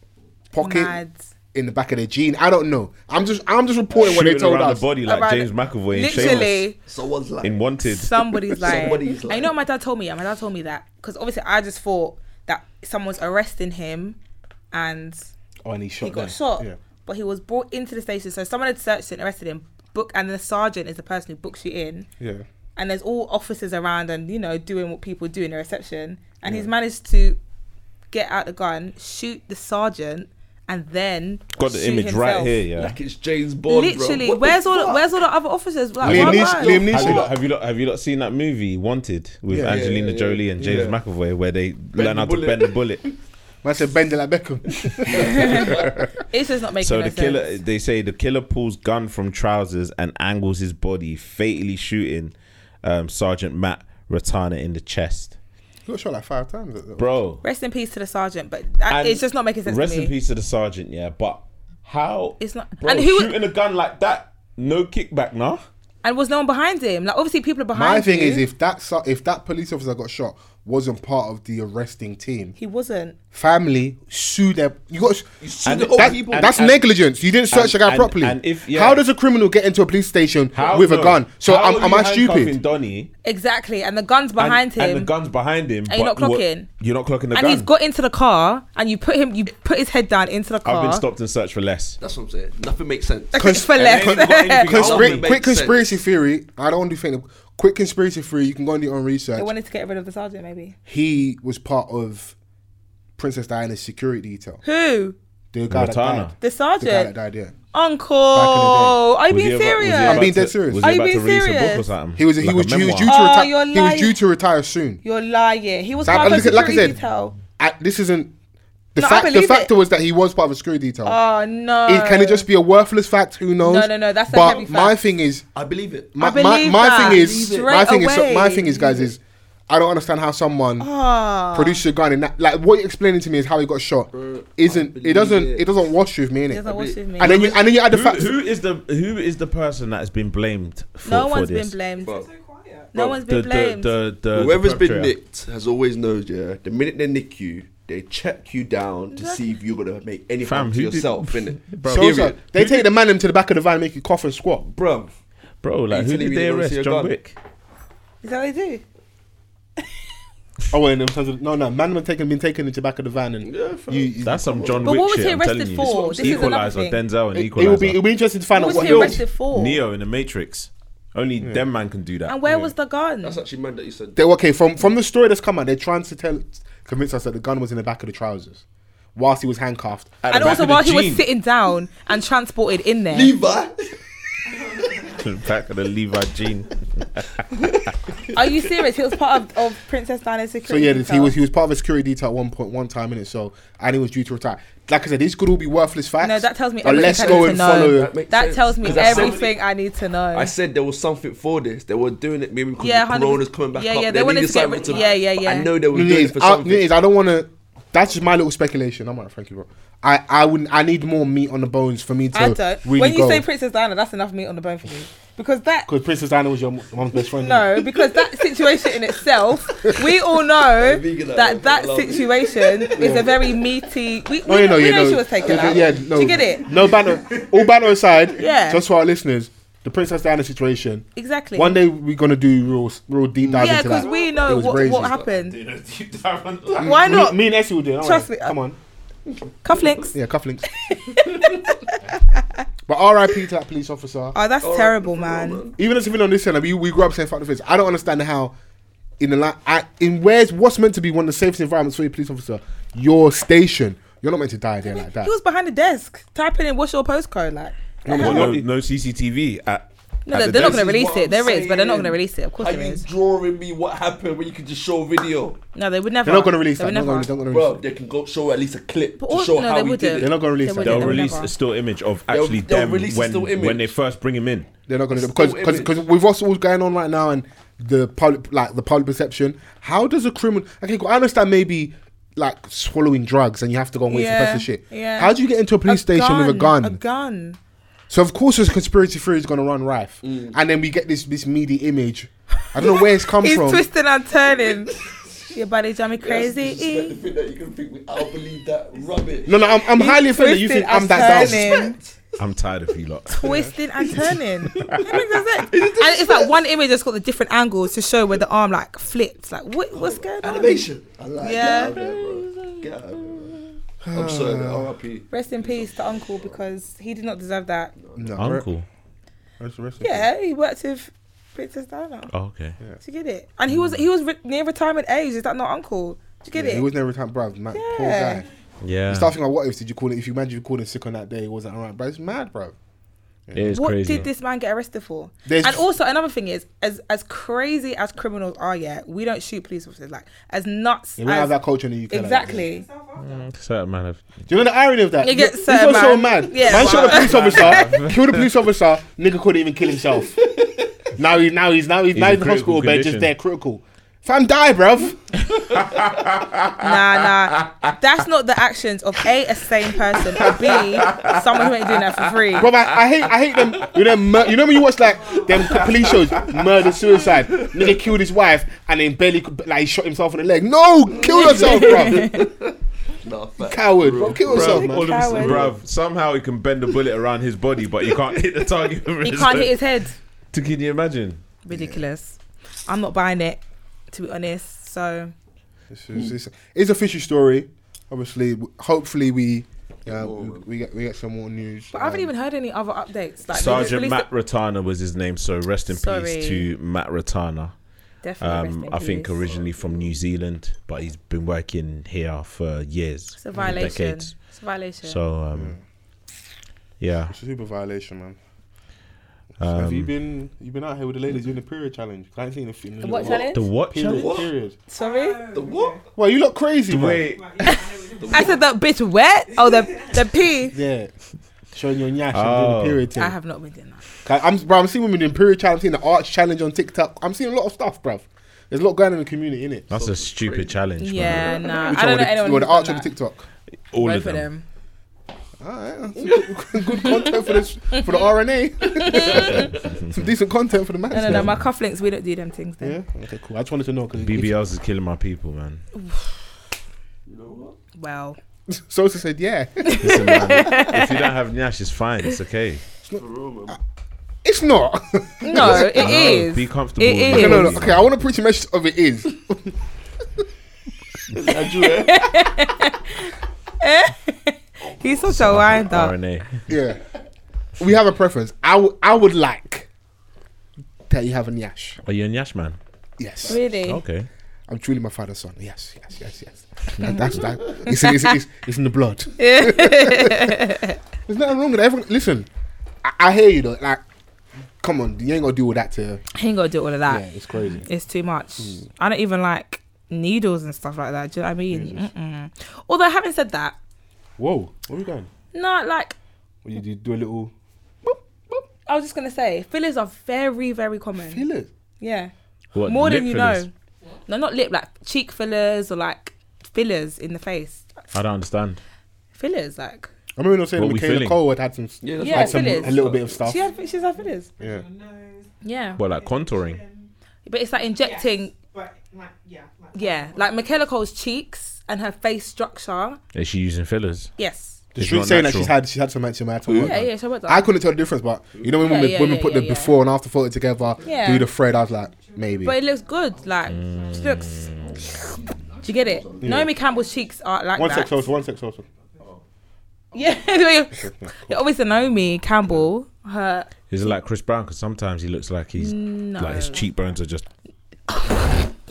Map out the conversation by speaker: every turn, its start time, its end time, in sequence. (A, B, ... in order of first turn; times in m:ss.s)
0:00.5-0:01.0 A
0:00.6-0:01.3 B
0:01.5-0:04.9 A
0:04.0-0:06.7 C
0:05.0-0:06.8 B
0:06.1-0:07.7 D
0:07.4-0:08.5 C
0:07.8-0:14.2 B
0:08.6-0:09.6 D
0:14.7-0:15.3 B
0:15.6-0:16.8 A
0:16.0-0:22.1 B
0:22.2-0:22.4 A
0:22.8-0:27.4 B
0:26.4-0:26.7 A
0:28.1-0:32.6 B
0:31.6-0:33.0 C
0:32.8-0:35.1 D
0:33.7-0:36.8 B
0:36.0-0:37.3 A
0:36.0-0:43.0 C
0:36.5-0:37.3 D
0:39.5-0:39.9 A
0:39.6-0:41.0 D
0:40.6-0:40.9 A
0:42.0-0:43.1 D
0:43.6-0:45.9 A
0:45.1-0:45.7 B
0:45.3-0:45.8 D
0:46.3-0:47.6 B
0:46.8-0:55.4 C
0:55.9-0:57.2 A
0:57.0-0:57.4 C
0:57.4-1:00.1 B
0:58.9-1:05.6 C
1:02.4-1:03.3 B
1:06.0-1:08.5 B
1:07.7-1:12.6 A
1:12.6-1:13.2 B
1:13.3-1:15.3 A
1:15.4-1:16.6 D
1:15.7-1:16.8 C
1:15.9-1:22.6 A
1:17.5-1:19.0 C
1:20.5-1:23.1 C
1:23.2-1:25.1 B
1:24.4-1:27.7 C
1:25.9-1:26.7 B
1:27.3-1:31.0 B
1:30.6-1:32.0 C
1:32.0-1:33.5 D
1:33.3-1:34.7 B
1:33.3-1:39.5 A
1:33.8-1:35.4 C
1:34.7-1:35.9 D
1:39.4-1:40.8 B
1:40.9-1:42.4 A
1:43.2-1:44.6 A
1:44.6-1:45.2 B
1:45.5-1:47.5 A
1:45.7-1:46.3 C
1:46.4-1:47.1 B
1:47.7-1:50.3 B
1:48.3-1:49.0 A
1:49.3-1:53.1 C
1:50.0-1:50.9 A
1:50.8-1:51.9 B
1:52.2-1:55.0 A
1:53.0-1:54.2 B
1:55.0-1:57.4 B
1:56.0-1:57.0 A
1:56.1-1:56.8 C
1:57.6-1:58.3 A
1:58.9-2:01.2 A
1:59.0-1:59.7 B
2:01.0-2:02.5 B
2:01.8-2:05.5 A
2:03.6-2:05.0 B
2:05.6-2:06.2 D
2:06.1-2:10.9 A
2:06.2-2:09.1 B
2:06.9-2:07.8 D
2:10.8-2:11.8 B
2:11.5-2:18.4 A
2:14.1-2:15.8 D
2:16.5-2:17.4 B
2:16.6-2:17.2 D
2:17.2-2:21.7 C
2:21.0-2:22.1 B
2:22.0-2:22.9 E
2:22.9-2:23.9 B
2:23.0-2:23.2 D
2:23.2-2:25.1 C
2:24.3-2:32.8 D
2:29.1-2:29.5 B
2:30.4-2:32.3 C
2:31.9-2:34.7 A
2:34.6-2:35.1 D
2:35.6-2:37.4 C
2:35.9-2:37.1 D
2:38.2-2:38.8 B
2:40.7-2:44.7 A
2:43.4-2:45.0 D
2:44.2-2:48.0 C
2:44.8-2:47.0 B
2:45.8-2:46.6 D
2:47.3-2:49.2 A
2:48.5-2:49.8 B
2:48.7-2:49.1 D
2:48.7-2:52.4 C
2:52.3-2:53.4 B
2:52.4-2:52.7 A
2:53.2-2:54.2 D
2:54.2-2:58.6 A
2:59.2-3:00.5 A
3:00.2-3:01.3 C
3:00.3-3:03.4 B
3:03.1-3:04.0 D
3:05.1-3:07.3 C
3:08.3-3:11.4 B
3:10.6-3:18.2 A
3:16.2-3:20.5 B
3:16.9-3:19.6 D
3:20.3-3:26.9 D
3:22.8-3:25.7 B
3:25.9-3:33.4 A
3:32.3-3:35.9 B
3:35.9-3:37.8 A
3:37.4-3:46.7 B
3:40.6-3:43.5 D
3:43.0-3:43.3 A
3:44.5-3:55.2 A
3:45.4-3:47.7 D
3:48.4-3:48.8 B
3:51.2-3:51.8 B
3:53.5-3:55.8 D
3:53.6-3:55.6 B
3:55.5-3:57.0 C
3:56.8-3:57.4 B
3:56.8-3:58.8 A
3:58.0-3:58.6 B
3:59.6-4:00.2 B
3:59.8-4:00.1 D
4:00.1-4:00.7 A
4:00.8-4:02.4 B
4:01.2-4:01.5 D
4:02.9-4:04.4 A
4:04.3-4:05.6 B
4:04.6-4:05.8 D
4:05.8-4:08.6 A
4:09.2-4:15.3 A
4:14.8-4:18.6 B
4:18.0-4:18.6 A
4:18.1-4:20.9 C
4:20.3-4:23.0 B
4:20.5-4:25.6 D
4:25.8-4:27.3 B
4:26.2-4:27.8 A
4:27.5-4:30.4 D
4:29.2-4:31.5 B
4:30.2-4:31.4 A
4:30.8-4:34.7 C
4:32.3-4:33.9 D
4:34.9-4:47.0 A
4:35.1-4:35.9 D
4:44.1-4:47.6 B
4:48.1-4:53.9 A
4:50.2-4:50.6 D
4:52.8-4:55.0 B
4:54.9-4:55.5 D
4:55.5-4:57.2 B
4:56.2-4:59.5 D
4:59.5-5:01.8 A
4:59.9-5:02.0 B
5:01.1-5:02.0 D
5:02.4-5:03.6 C
5:03.3-5:12.9 B
5:03.4-5:03.7 A
5:04.8-5:06.6 D
5:09.9-5:16.6 D
5:14.0-5:14.9 A
5:15.3-5:17.9 B
5:18.0-5:18.5 D
5:18.2-5:18.7 A
5:18.4-5:18.9 C
5:19.6-5:20.3 A
5:20.0-5:22.3 B
5:22.3-5:22.8 C
5:23.0-5:26.9 B
5:26.5-5:28.5 A
5:27.7-5:28.4 B
5:28.8-5:29.3 C
5:29.1-5:32.8 A
5:33.5-5:34.2 A
5:33.5-5:34.3 C
5:33.7-5:41.5 B
5:35.5-5:35.8 A
5:41.2-5:42.6 A
5:42.1-5:42.9 B
5:42.4-5:43.5 E
5:43.2-5:44.4 C
5:44.5-5:50.4 A
5:45.2-5:47.9 B
5:46.7-5:48.4 C
5:50.5-5:50.8 D
5:51.2-5:55.2 A
5:52.1-5:53.3 C
5:55.6-5:57.0 C
5:56.8-6:02.7 B
5:57.5-5:57.9 C
6:00.4-6:01.4 C
6:02.6-6:12.4 A
6:05.0-6:05.6 E
6:07.6-6:07.9 D
6:11.1-6:15.8 D
6:11.1-6:12.5 B
6:13.6-6:15.6 A
6:14.5-6:19.7 C
6:14.6-6:15.6 B
6:19.2-6:20.2 B
6:20.5-6:21.4 C
6:21.6-6:25.3 B
6:21.7-6:22.0 A
6:25.9-6:32.3 A
6:30.1-6:30.6 D
6:31.9-6:34.3 B
6:33.5-6:37.7 C
6:35.9-6:36.7 B
6:38.2-6:39.4 B
6:38.4-6:44.4 C
6:39.5-6:40.1 D
6:43.4-6:45.2 B
6:43.6-6:43.9 A
6:45.0-6:45.8 C
6:45.5-6:45.8 A
6:47.0-6:47.3 C
6:47.3-6:48.4 A
6:49.6-6:50.1 C
6:49.6-6:54.8 A
6:53.0-6:53.6 B
6:53.2-6:53.4 D
6:53.5-6:54.5 C
6:54.0-6:54.5 D
6:54.9-6:55.4 B
6:54.9-6:56.1 E
6:55.5-6:56.0 D
6:56.2-6:57.2 A
6:56.9-6:57.9 C
6:57.2-6:58.7 E
6:57.7-7:00.8 B
6:58.2-6:58.5 D
6:59.5-7:00.4 E
7:00.7-7:01.1 A
7:01.7-7:03.3 A
7:02.3-7:03.0 C
7:03.2-7:04.0 B
7:04.2-7:09.9 A
7:09.9-7:11.7 C
7:09.9-7:11.9 D
7:11.0-7:13.1 B
7:11.8-7:13.5 A
7:13.9-7:14.5 C
7:14.0-7:14.6 B
7:15.6-7:21.5 A
7:16.2-7:16.5 D
7:19.0-7:19.7 B
7:19.8-7:20.2 C
7:21.1-7:23.0 B
7:21.3-7:21.6 C
7:22.8-7:24.6 A
7:24.2-7:25.8 C
7:26.0-7:26.3 B
7:27.3-7:27.8 D
7:28.0-7:28.4 B
7:28.7-7:30.4 A
7:29.8-7:31.2 B
7:30.0-7:32.8 C
7:33.1-7:33.7 A
7:33.1-7:33.8 D
7:34.4-7:36.4 A
7:35.4-7:37.8 B
7:35.6-7:38.0 C
7:37.3-7:39.7 A
7:41.3-7:42.6 D
7:41.8-7:46.2 B
7:45.3-7:46.6 C
7:46.7-7:47.0 A
7:47.8-7:49.9 A
7:51.1-7:52.0 A
7:52.0-7:52.8 C
7:53.2-7:53.6 A
7:53.5-7:54.0 B
7:53.9-7:54.3 C
7:54.7-8:00.6 A
7:57.0-7:58.3 B
7:59.4-8:01.0 B
8:01.3-8:02.5 A
8:03.0-8:04.0 A
8:04.8-8:06.2 A
8:06.4-8:13.8 B
8:07.1-8:07.9 A
8:11.7-8:12.1 A
8:14.4-8:15.3 A
8:15.5-8:16.2 B
8:16.6-8:17.5 A
8:18.0-8:18.6 A
8:18.9-8:21.4 B
8:21.2-8:21.7 A
8:22.0-8:22.3 B
8:22.7-8:23.7 C
8:22.8-8:23.7 B
8:24.3-8:27.9 B
8:28.1-8:28.8 C
8:29.4-8:30.1 B
8:30.4-8:33.6 A
8:30.8-8:31.4 C
8:32.0-8:33.4 D
8:32.2-8:34.5 B
8:33.4-8:37.1 E
8:35.6-8:36.0 B
8:36.0-8:36.8 C
8:37.5-8:38.5 B
8:37.9-8:40.9 E
8:39.9-8:43.2 B
8:43.3-8:44.3 C
8:44.4-8:44.8 B
8:45.0-8:45.7 C
8:45.0-8:52.7 A
8:46.7-8:47.0 D
8:46.8-8:47.7 B
8:48.5-8:48.8 D
8:48.8-8:50.0 B
8:51.0-8:51.2 D
8:51.0-8:55.0 E
8:51.0-8:51.5 B
8:52.6-8:54.7 B
8:53.7-8:55.0 C
8:54.8-8:56.7 D
8:55.8-8:58.3 B
8:56.4-8:56.7 A
8:56.7-8:57.4 E
8:57.8-8:58.8 A
9:00.1-9:03.7 B
9:01.0-9:01.6 A
9:03.9-9:07.5 C
9:05.8-9:06.9 B
9:08.1-9:08.5 B